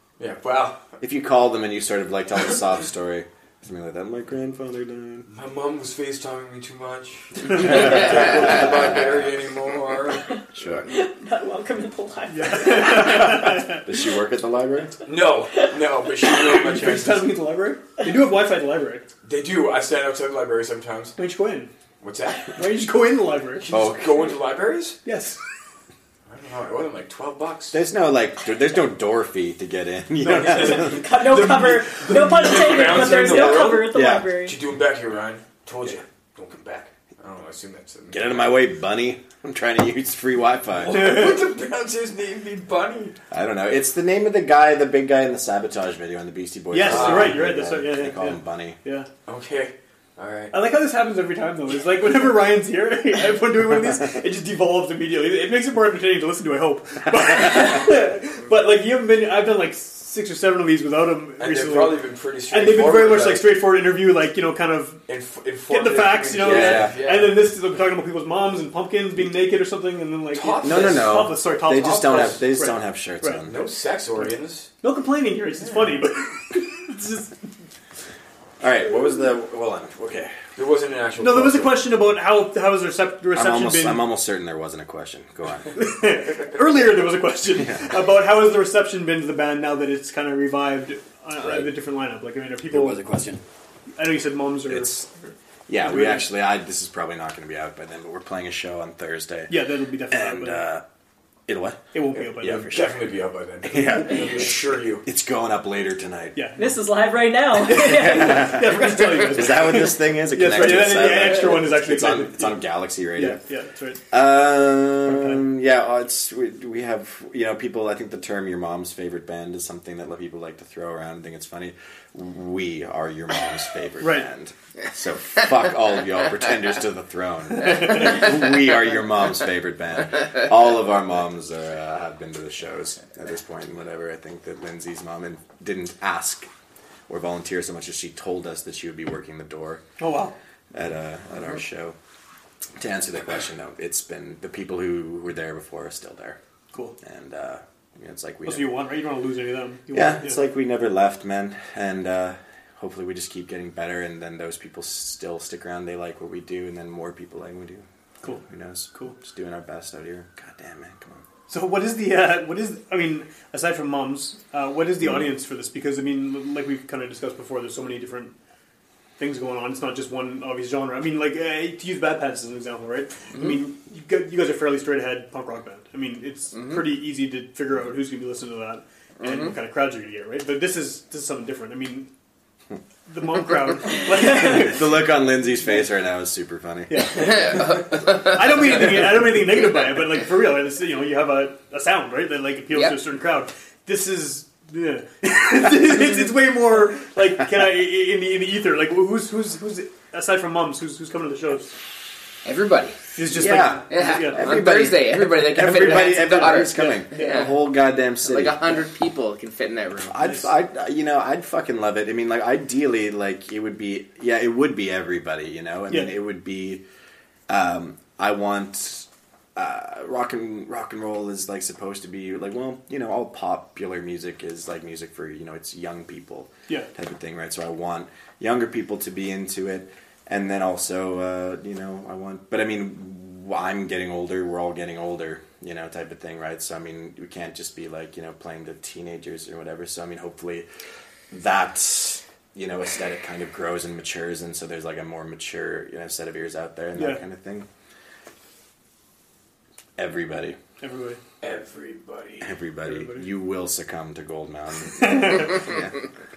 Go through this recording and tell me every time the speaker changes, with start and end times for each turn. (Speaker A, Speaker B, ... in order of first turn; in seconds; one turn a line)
Speaker A: 0.2-0.9
Speaker B: 1.0-5.3
Speaker A: 5.3-10.3
Speaker B: 7.6-9.0
Speaker B: 10.6-10.9
Speaker C: 10.9-13.6
Speaker D: 12.3-13.8
Speaker B: 13.2-14.9
Speaker A: 15.1-17.4
Speaker C: 15.5-16.4
Speaker D: 16.5-19.1
Speaker A: 19.2-21.1
Speaker D: 21.2-21.7
Speaker A: 22.0-22.6
Speaker D: 22.6-23.7
Speaker A: 23.6-25.0
Speaker B: 23.7-24.3
Speaker D: 25.0-25.4
Speaker A: 26.3-27.8
Speaker B: 27.7-31.3
Speaker A: 30.2-38.4
Speaker C: 30.6-34.6
Speaker D: 32.9-33.8
Speaker B: 33.8-34.3
Speaker B: 38.1-41.2
Speaker A: 40.7-43.2
Speaker D: 40.9-41.5
Speaker B: 43.3-48.8
Speaker D: 46.7-49.1
Speaker A: 46.8-47.4
Speaker A: 49.3-50.5
Speaker D: 50.5-62.0
Speaker A: 61.4-63.5
Speaker D: 62.5-65.0
Speaker A: 65.1-67.5
Speaker D: 65.7-73.5
Speaker B: 66.4-67.0
Speaker A: 70.3-72.4
Speaker B: 70.6-73.7
Speaker A: 73.5-74.7
Speaker D: 74.8-77.4
Speaker A: 75.6-76.0
Speaker B: 78.6-80.4
Speaker A: 80.6-81.9
Speaker D: 81.2-84.1
Speaker B: 83.3-85.8
Speaker D: 85.7-93.0
Speaker B: 87.5-88.0
Speaker B: 92.8-93.4
Speaker D: 94.0-96.3
Speaker B: 94.7-95.1
Speaker B: 95.7-99.6
Speaker D: 99.5-100.7
Speaker B: 100.1-100.8
Speaker B: 101.5-106.4
Speaker D: 101.9-102.7
Speaker A: 102.4-105.0
Speaker D: 106.3-106.8
Speaker C: 106.6-108.7
Speaker D: 107.6-114.0
Speaker B: 107.8-113.4
Speaker B: 114.1-136.5
Speaker D: 115.0-115.5
Speaker D: 124.0-124.3
Speaker B: 137.1-139.8
Speaker D: 140.0-140.3
Speaker B: 140.7-142.0
Speaker B: 142.8-146.4
Speaker B: 147.0-148.8
Speaker D: 148.5-150.4
Speaker B: 149.9-161.2
Speaker D: 161.5-168.3
Speaker D: 169.2-182.1
Speaker E: 179.2-179.5
Speaker D: 183.1-185.0
Speaker B: 184.1-187.3
Speaker D: 186.9-201.7
Speaker E: 192.7-193.0
Speaker E: 202.4-203.2
Speaker D: 203.2-204.6
Speaker B: 203.3-208.9
Speaker E: 203.9-207.6
Speaker D: 205.5-207.5
Speaker E: 208.2-210.2
Speaker B: 210.0-216.8
Speaker D: 215.9-216.2
Speaker B: 217.5-240.7
Speaker B: 241.3-247.7
Speaker D: 246.9-247.2
Speaker B: 250.0-250.6
Speaker D: 250.8-251.2
Speaker A: 251.4-252.5
Speaker B: 252.4-256.0
Speaker D: 252.8-253.3
Speaker D: 255.0-255.5